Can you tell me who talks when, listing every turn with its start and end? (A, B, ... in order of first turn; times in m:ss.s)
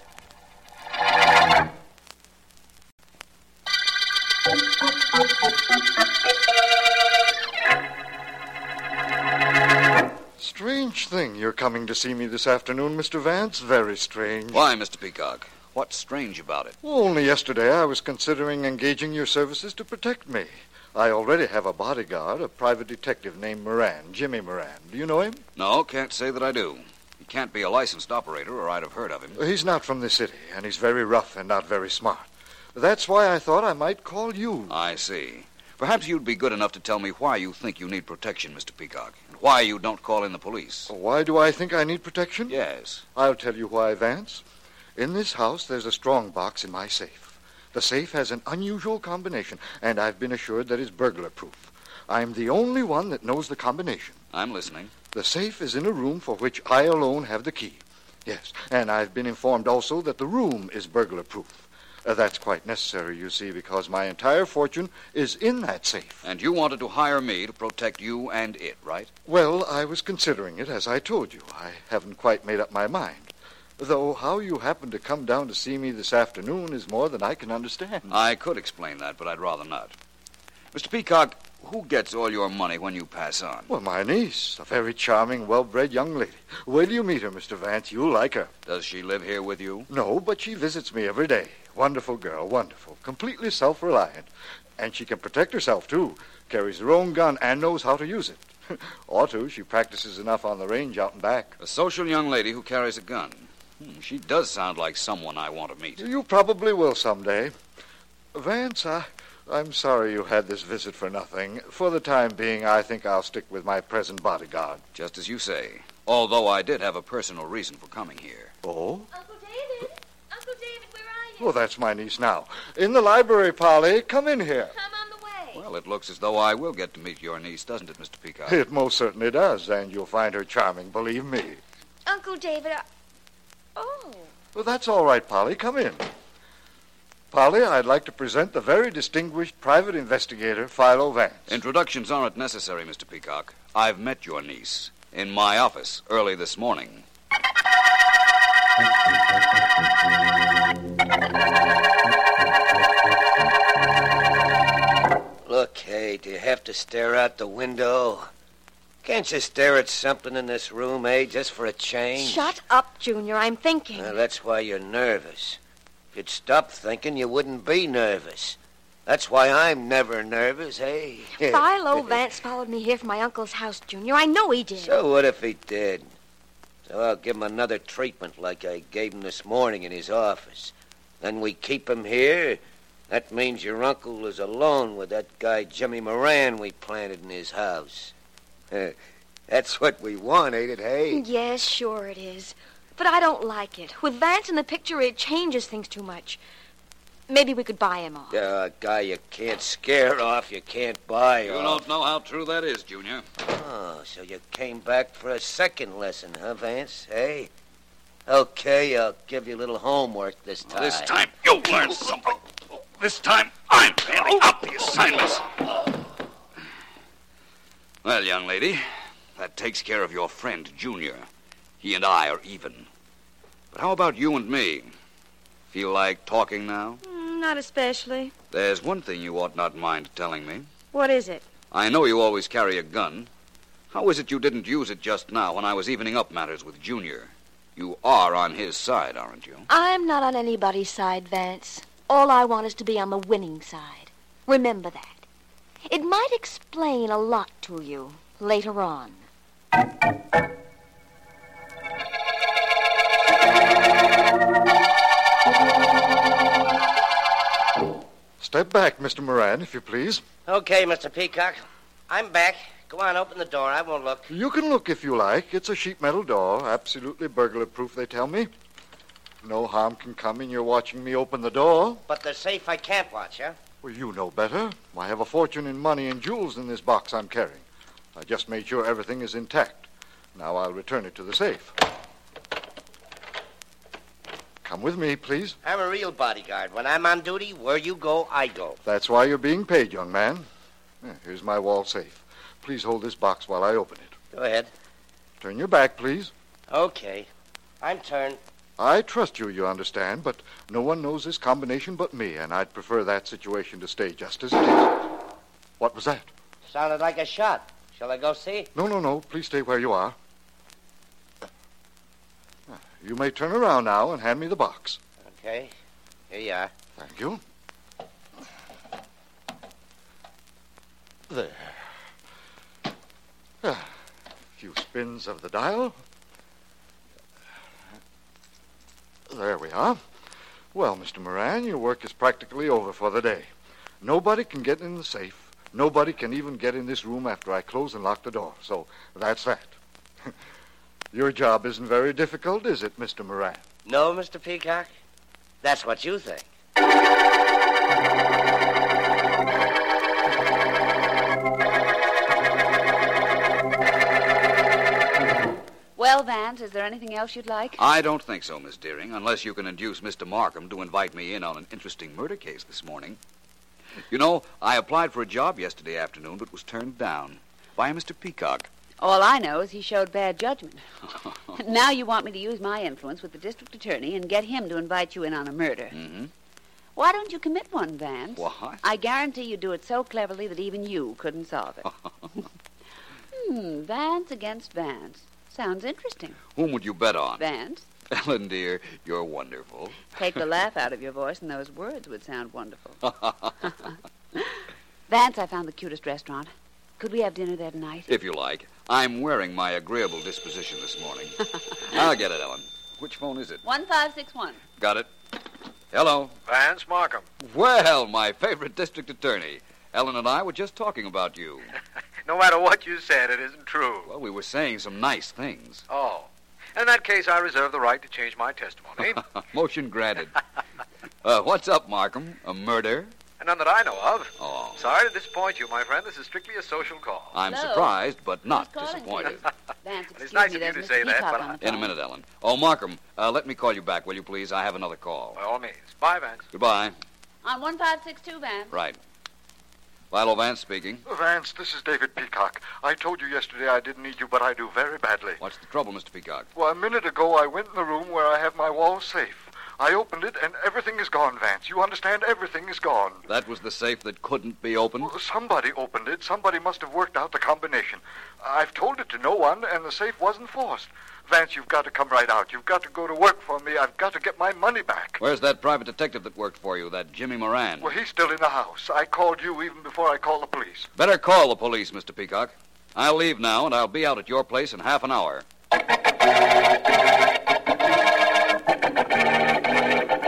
0:10.4-0:14.6 A
0:14.5-0:16.8 B
0:16.8-0:25.4 A
0:25.6-0:29.4 B
0:29.4-0:34.8 A
0:34.7-0:40.9 B
0:40.9-0:42.6 A
0:42.5-0:43.0 B
0:43.2-0:44.4 A
0:45.0-0:54.2 A
0:54.3-0:54.9 B
0:55.1-1:06.2 A
1:06.2-1:09.1 B
1:09.2-1:18.1 A
1:18.1-1:20.0 B
1:20.7-1:23.7 B
1:23.7-1:28.5 A
1:28.7-1:29.9 B
1:29.9-1:41.6 A
1:41.6-1:46.0 B
1:46.0-1:47.5 A
1:48.3-1:54.8 A
1:54.9-1:58.5 B
1:58.6-1:59.1 A
1:59.1-2:01.5 C
2:01.4-2:04.7 A
2:04.7-2:05.6 C
2:05.5-2:08.6 B
2:08.4-2:11.6 A
2:12.0-2:12.8 C
2:13.8-2:14.3 C
2:14.5-2:16.0 A
2:17.3-2:21.6 A
2:21.5-2:27.0 B
2:35.4-2:38.3 D
2:39.0-2:42.5 D
2:42.2-2:44.2 C
2:44.0-2:45.6 D
2:46.1-2:52.1 D
2:51.4-2:55.0 C
2:54.8-2:56.1 D
2:56.9-3:08.1 D
3:08.7-3:09.0 D
3:09.5-3:11.2 D
3:11.1-3:16.4 C
3:17.3-3:18.4 C
3:18.3-3:21.8 D
3:21.4-3:23.3 B
3:23.4-3:27.5 D
3:28.3-3:31.1 D
3:30.7-3:32.4 B
3:33.0-3:35.5 B
3:38.0-3:38.8 B
3:39.4-3:41.3 B
3:41.8-3:42.9 B
3:43.7-3:44.9 B
3:45.7-3:47.0 B
3:47.0-3:48.3 C
3:48.5-3:50.7 B
3:50.9-3:51.4 C
3:51.7-3:53.3 B
3:53.9-3:59.7 B
3:59.7-4:05.2 C
4:05.9-4:09.2 C
4:18.4-4:20.2 A
4:20.5-4:24.3 E
4:24.3-4:28.5 A
4:29.4-4:32.0 A
4:32.1-4:33.6 E
4:33.8-4:37.6 A
4:38.1-4:41.7 A
4:44.6-4:45.6 A
4:45.6-4:48.8 E
4:48.8-4:50.4 A
4:51.0-4:54.2 A
4:54.3-4:54.7 E
4:55.4-4:56.3 A
4:56.7-4:57.3 E
4:57.8-4:58.4 E
4:58.8-5:05.1 A
5:05.8-5:06.3 A
5:06.7-5:08.7 E
5:08.7-5:10.2 A
5:12.7-5:15.0 A
5:15.3-5:15.7 E
5:16.3-5:16.7 E
5:17.0-5:17.4 A
5:21.3-5:21.9 A
5:23.6-5:23.9 A
5:24.6-5:26.0 A
5:29.3-5:30.0 A
5:30.7-5:33.5 A
5:34.0-5:39.8 A
5:41.1-5:43.6 A
5:43.8-5:44.9 E
5:45.6-5:46.5 E
5:56.0-5:57.8 F
5:57.8-6:03.2 B
6:04.1-6:08.7 B
6:09.0-6:10.8 F
6:11.5-6:16.0 F
6:15.9-6:16.3 B
6:17.0-6:21.8 F
6:18.4-6:18.8 B
6:23.3-6:26.4 F
6:26.5-6:27.4 B
6:27.4-6:27.8 F
6:28.1-6:30.4 B
6:30.2-6:33.0 F
6:33.0-6:33.6 B
6:33.8-6:34.5 F
6:35.1-6:38.1 F
6:38.1-6:43.6 B
6:43.6-6:44.6 F
6:44.8-6:45.1 B
6:45.9-6:46.3 B
6:46.5-6:47.2 G
6:47.4-6:51.7 B
6:52.2-6:54.1 G
6:54.1-6:55.8 B
6:55.9-6:59.2 G
6:59.0-7:00.4 B
7:01.2-7:03.1 B
7:03.4-7:07.4 G
7:04.4-7:04.8 B
7:07.3-7:09.4 B
7:07.5-7:07.9 F
7:08.5-7:11.9 F
7:10.2-7:11.5 G
7:11.6-7:15.4 B
7:15.4-7:16.4 G
7:16.5-7:16.9 B
7:17.4-7:18.7 F
7:18.7-7:19.0 B
7:20.1-7:21.0 B
7:21.0-7:25.4 A
7:25.4-7:26.5 B
7:26.6-7:33.2 A
7:33.3-7:35.1 B
7:35.0-7:45.2 A
7:45.2-7:47.9 B
7:47.8-7:50.9 A
7:51.0-7:55.4 B